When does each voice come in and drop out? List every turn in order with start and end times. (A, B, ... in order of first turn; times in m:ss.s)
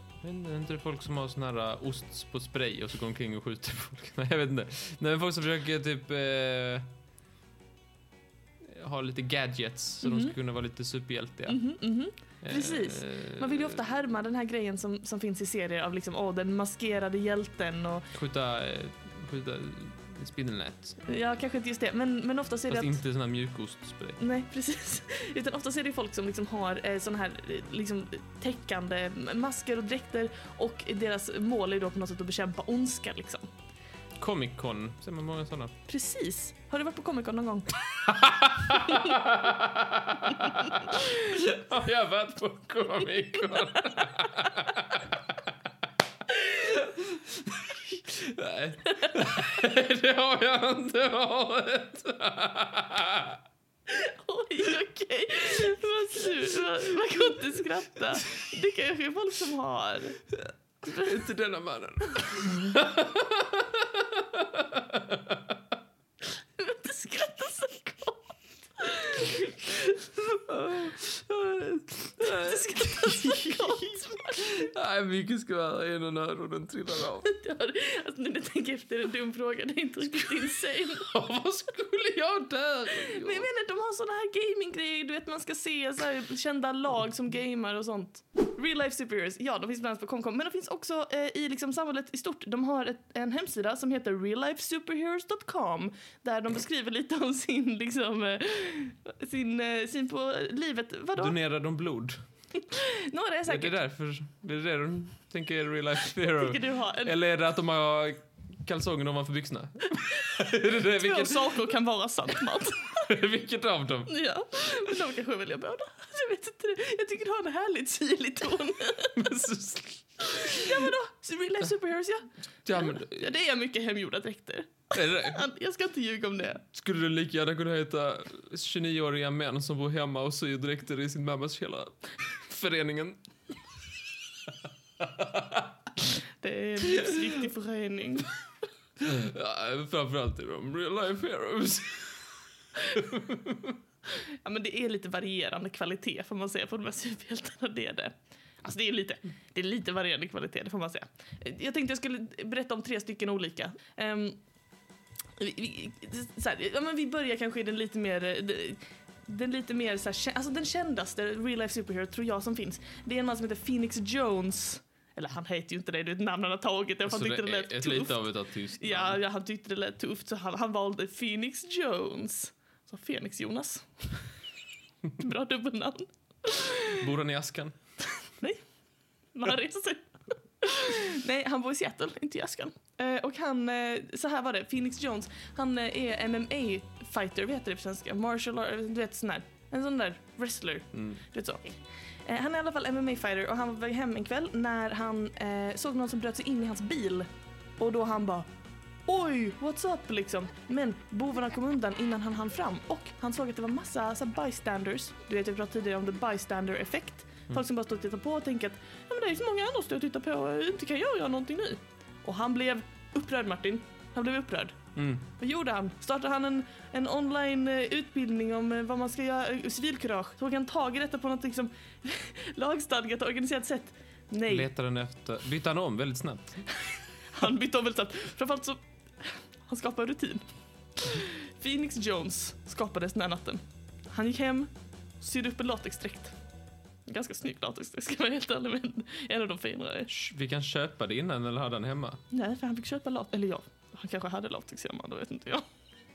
0:00.2-0:06.9 A
0:08.6-0:11.6 A
0:10.0-0:10.3 B
0:11.5-0:18.1 B
0:12.4-0:13.8 A
0:18.1-0:21.0 A
0:21.0-0:23.0 B
0:22.7-0:24.2 A
0:24.2-0:33.5 B
0:34.2-0:35.7 A
0:35.9-0:37.7 B
0:38.0-0:45.4 A
0:38.7-0:39.2 B
0:40.4-0:41.1 B
0:43.8-0:44.2 B
0:46.4-0:53.4 A
0:49.0-0:49.5 B
0:53.9-1:00.2 B
1:00.4-1:05.6 A
1:00.8-1:01.2 B
1:06.4-1:10.9 B
1:10.5-1:17.3 A
1:12.2-1:14.7 B
1:17.2-1:21.1 B
1:21.0-1:23.5 A
1:22.9-1:41.4 B
1:41.2-1:42.2 A
1:42.5-1:43.8 B
1:43.5-1:51.6 A
1:46.2-1:47.1 B
1:51.0-1:53.1 B
1:53.0-1:54.8 A
1:54.1-1:59.4 B
1:59.1-2:00.9 A
2:00.2-2:06.6 B
2:02.6-2:03.4 A
2:04.9-2:05.4 A
2:06.7-2:13.2 A
2:15.0-2:15.7 A
2:16.4-2:18.3 B
2:16.9-2:17.4 A
2:19.0-2:23.8 A
2:24.1-2:34.4 B
2:35.4-2:48.3 B
2:47.0-2:49.2 A
2:48.8-2:54.3 B
2:55.2-2:57.0 B
2:56.9-2:57.8 A
2:58.2-2:58.6 B
2:59.3-3:18.5 B
3:10.9-3:11.2 A
3:19.0-3:44.7 B
3:35.0-3:35.3 A
3:44.5-3:46.7 A
3:46.8-3:50.4 B
3:51.0-3:56.4 B
3:57.1-4:00.1 B
4:00.1-4:02.2 A
4:02.3-4:05.7 B